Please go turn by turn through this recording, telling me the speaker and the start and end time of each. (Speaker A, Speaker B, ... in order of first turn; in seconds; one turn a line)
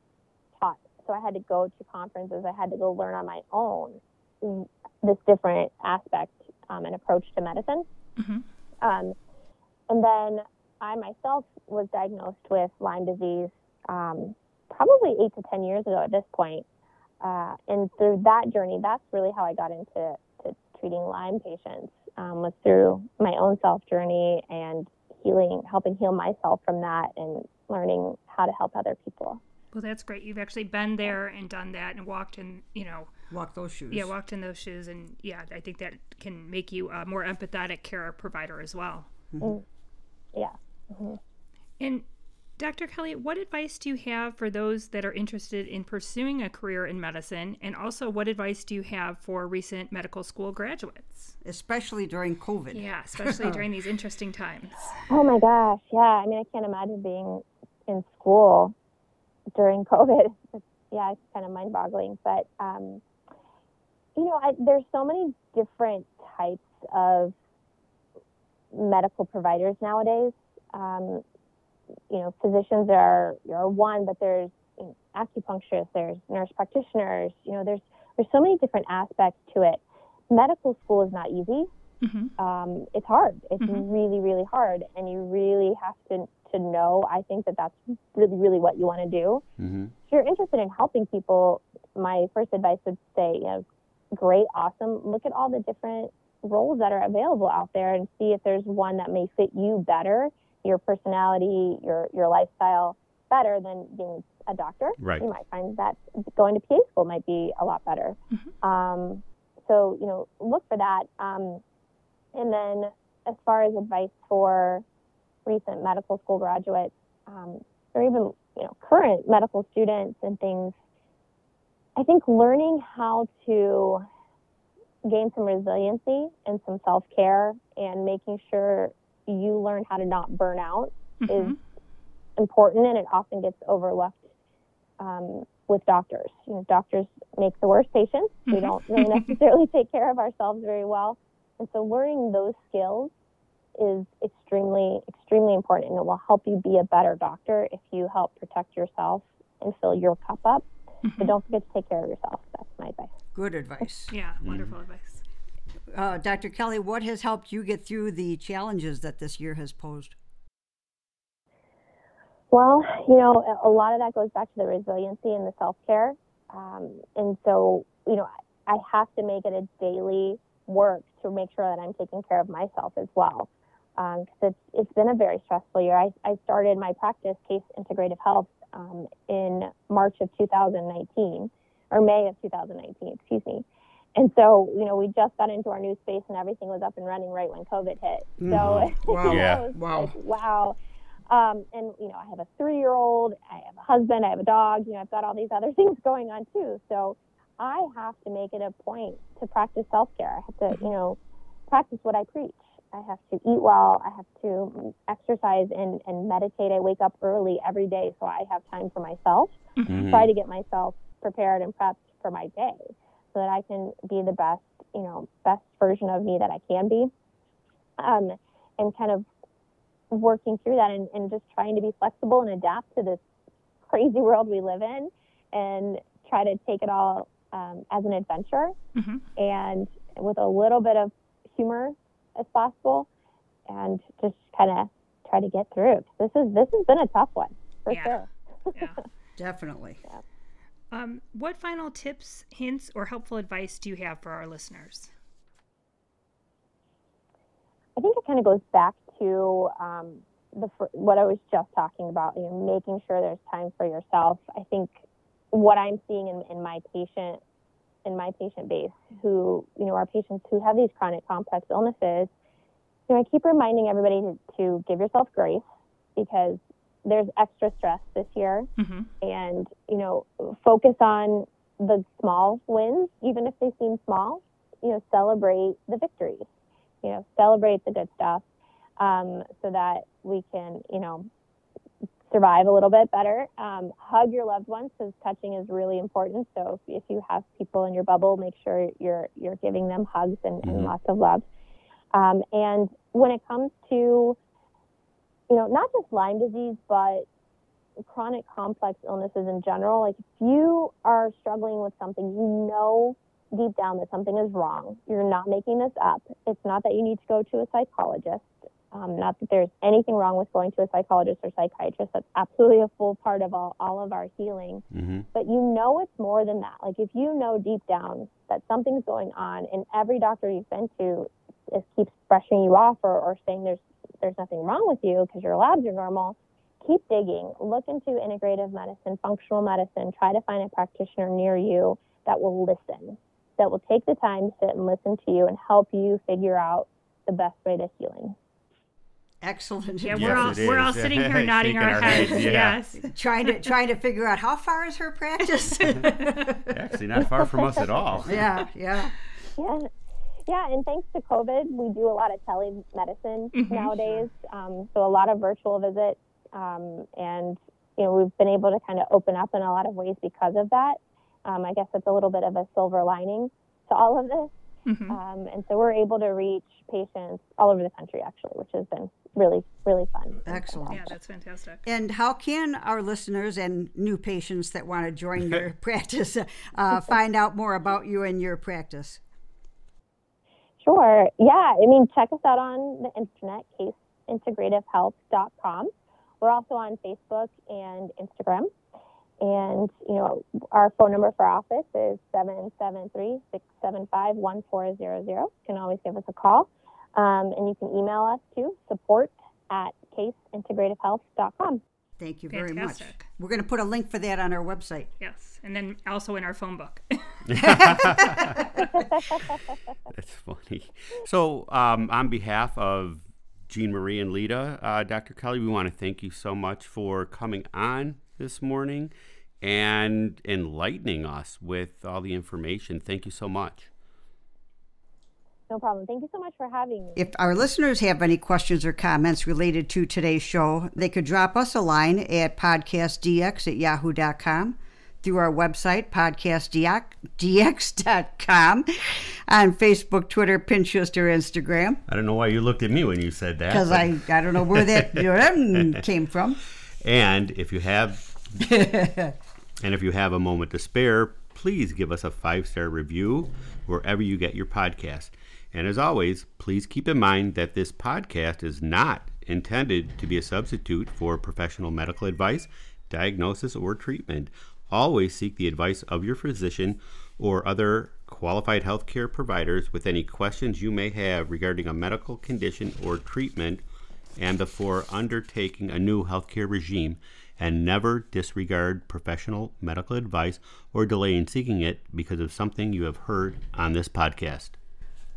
Speaker A: 0.6-7.9
Speaker B: 8.2-8.4
Speaker A: 8.8-9.2
Speaker A: 9.9-16.6
Speaker A: 17.2-29.4
Speaker B: 29.7-33.1
Speaker C: 33.3-34.1
Speaker B: 33.9-39.1
Speaker A: 40.3-41.2
Speaker B: 41.8-42.0
Speaker B: 42.6-51.3
Speaker C: 51.4-53.6
Speaker B: 52.7-55.1
Speaker A: 55.1-58.8
Speaker A: 59.5-63.0
Speaker A: 64.2-67.3
Speaker A: 68.7-71.2
Speaker A: 72.1-81.7
Speaker B: 82.0-82.3
Speaker A: 82.4-89.4
Speaker B: 83.6-83.9
Speaker D: 89.6-89.9
Speaker A: 90.1-111.6
Speaker D: 105.0-105.3
Speaker A: 112.3-114.8
Speaker A: 115.5-120.8
Speaker A: 122.0-124.0
Speaker A: 125.0-131.6
Speaker B: 131.2-131.6
Speaker A: 132.4-134.3
Speaker A: 135.0-143.1
Speaker B: 138.5-139.4
Speaker A: 143.8-150.7
Speaker B: 151.0-151.3
Speaker A: 151.2-153.1
Speaker C: 153.3-154.1
Speaker B: 154.1-155.2
Speaker D: 154.4-154.7
Speaker C: 155.9-160.2
Speaker A: 162.5-190.8
Speaker C: 188.4-190.1
Speaker D: 188.5-189.7
Speaker A: 191.3-201.2
Speaker A: 201.7-217.1
Speaker B: 209.8-210.1
Speaker D: 209.9-210.3
Speaker A: 218.0-219.3
Speaker A: 220.1-223.2
Speaker A: 223.8-228.7
Speaker B: 228.9-229.2
Speaker A: 229.4-233.1
Speaker A: 233.7-238.7
Speaker B: 237.9-238.2
Speaker C: 239.4-240.0
Speaker B: 240.9-245.1
Speaker A: 248.0-257.4
Speaker A: 258.1-262.3
Speaker A: 263.1-265.6
Speaker A: 266.2-268.7
Speaker B: 268.8-269.1
Speaker A: 269.2-276.5
Speaker A: 277.0-278.4
Speaker A: 279.0-281.3
Speaker A: 282.3-291.4
Speaker D: 290.6-290.9
Speaker A: 292.1-294.4
Speaker A: 295.5-297.3
Speaker A: 298.1-338.4
Speaker D: 314.9-315.3
Speaker C: 339.4-340.7
Speaker B: 340.0-343.7
Speaker D: 340.1-342.8
Speaker C: 342.0-347.3
Speaker B: 345.8-346.4
Speaker D: 345.8-346.1
Speaker D: 346.7-348.5
Speaker C: 348.2-349.1
Speaker A: 349.6-349.9
Speaker A: 350.5-364.5
Speaker B: 353.5-353.9
Speaker B: 364.9-365.2
Speaker A: 365.1-371.0
Speaker C: 370.5-371.1
Speaker B: 370.9-371.8
Speaker C: 371.9-379.2
Speaker A: 380.8-388.7
Speaker A: 389.4-401.8
Speaker C: 402.2-405.1
Speaker B: 402.5-403.3
Speaker B: 405.2-407.7
Speaker D: 407.5-408.6
Speaker C: 407.6-409.1
Speaker D: 410.1-423.9
Speaker A: 425.7-427.3
Speaker C: 427.2-442.0
Speaker D: 442.1-446.0
Speaker C: 443.7-446.6
Speaker D: 447.0-448.5
Speaker C: 448.6-449.4
Speaker D: 449.8-473.8
Speaker D: 474.4-484.8